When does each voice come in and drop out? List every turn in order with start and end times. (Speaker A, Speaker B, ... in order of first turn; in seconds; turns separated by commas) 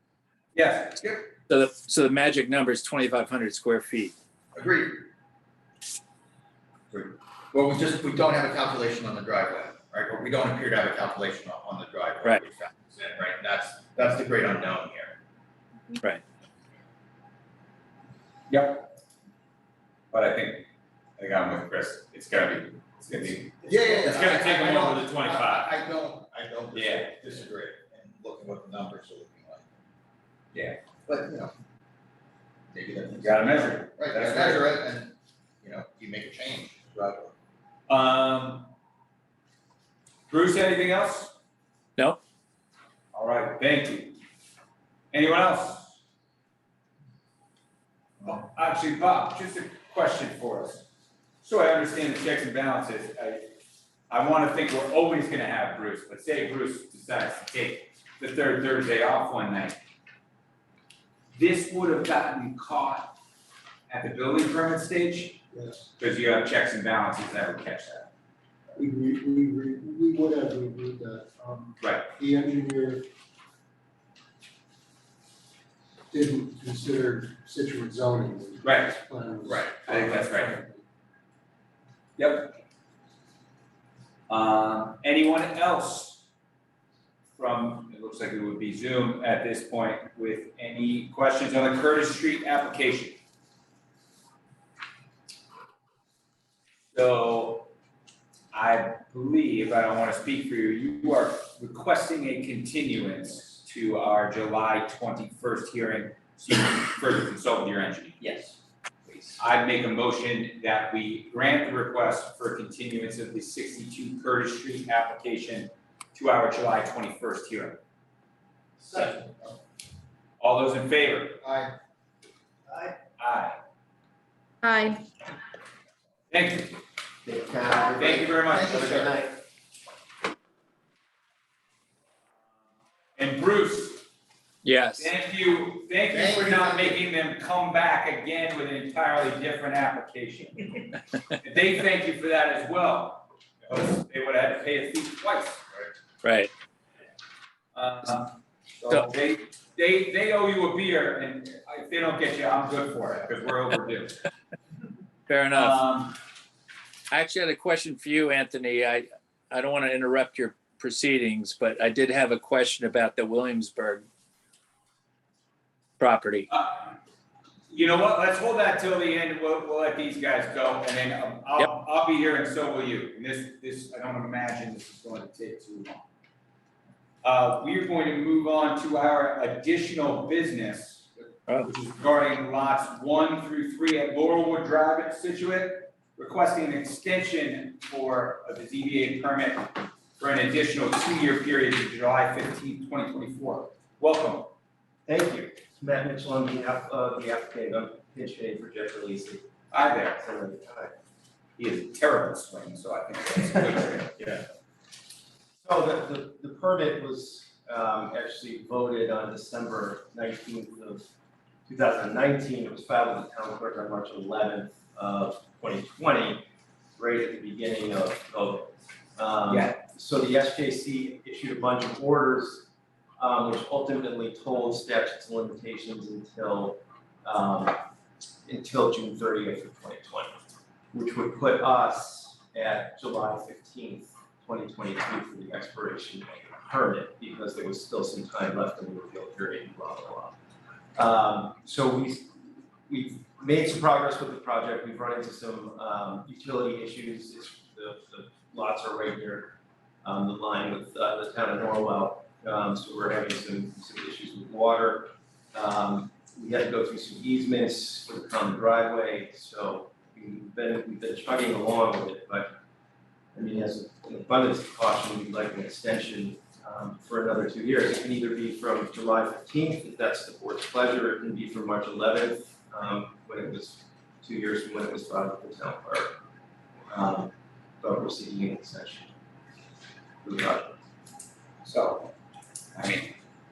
Speaker A: 0.5-1.3, Speaker B: 1.5-4.1, Speaker C: 4.5-5.1, Speaker C: 6.9-15.1, Speaker A: 18.5-18.9, Speaker A: 20.1-20.7, Speaker A: 21.2-25.8, Speaker C: 23.6-29.6, Speaker A: 26.7-27.3, Speaker A: 30.5-30.8, Speaker C: 31.1-31.5, Speaker C: 32.7-37.3, Speaker A: 33.2-34.8, Speaker A: 37.9-38.7, Speaker A: 40.3-41.3, Speaker A: 43.1-44.2, Speaker A: 45.1-46.0, Speaker A: 48.2-50.8, Speaker A: 51.4-53.5, Speaker A: 54.1-59.8, Speaker A: 61.3-63.1, Speaker A: 63.9-65.4, Speaker D: 65.5-65.8, Speaker A: 66.0-68.1, Speaker D: 68.7-73.1, Speaker A: 71.8-72.1, Speaker D: 76.1-80.8, Speaker A: 78.6-79.0, Speaker C: 79.4-79.9, Speaker A: 79.8-80.6, Speaker A: 82.2-82.6, Speaker A: 84.3-86.2, Speaker A: 87.3-93.2, Speaker A: 96.9-97.7, Speaker A: 98.5-108.3, Speaker A: 109.4-117.8, Speaker A: 120.4-121.4, Speaker C: 121.4-121.7, Speaker A: 123.2-123.5, Speaker A: 126.3-126.8, Speaker C: 127.9-129.1, Speaker A: 128.0-129.2, Speaker A: 133.2-134.1, Speaker B: 134.6-135.1, Speaker A: 135.0-145.6, Speaker C: 136.1-137.0, Speaker B: 146.2-146.5, Speaker A: 147.7-154.2, Speaker B: 155.3-155.8, Speaker A: 155.5-156.2, Speaker B: 157.1-164.1, Speaker B: 166.0-166.5, Speaker A: 166.5-166.9, Speaker A: 167.7-176.0, Speaker A: 177.2-194.5, Speaker E: 195.1-199.5, Speaker A: 199.7-200.2, Speaker E: 200.2-200.9, Speaker A: 201.6-204.1, Speaker E: 205.6-211.0, Speaker E: 211.7-216.4, Speaker E: 217.0-227.8, Speaker A: 219.5-219.7, Speaker E: 228.4-230.4, Speaker E: 230.9-240.3, Speaker E: 240.9-262.5, Speaker E: 263.3-276.1, Speaker E: 276.9-279.1, Speaker E: 280.2-280.8, Speaker A: 281.6-282.1, Speaker A: 282.7-283.1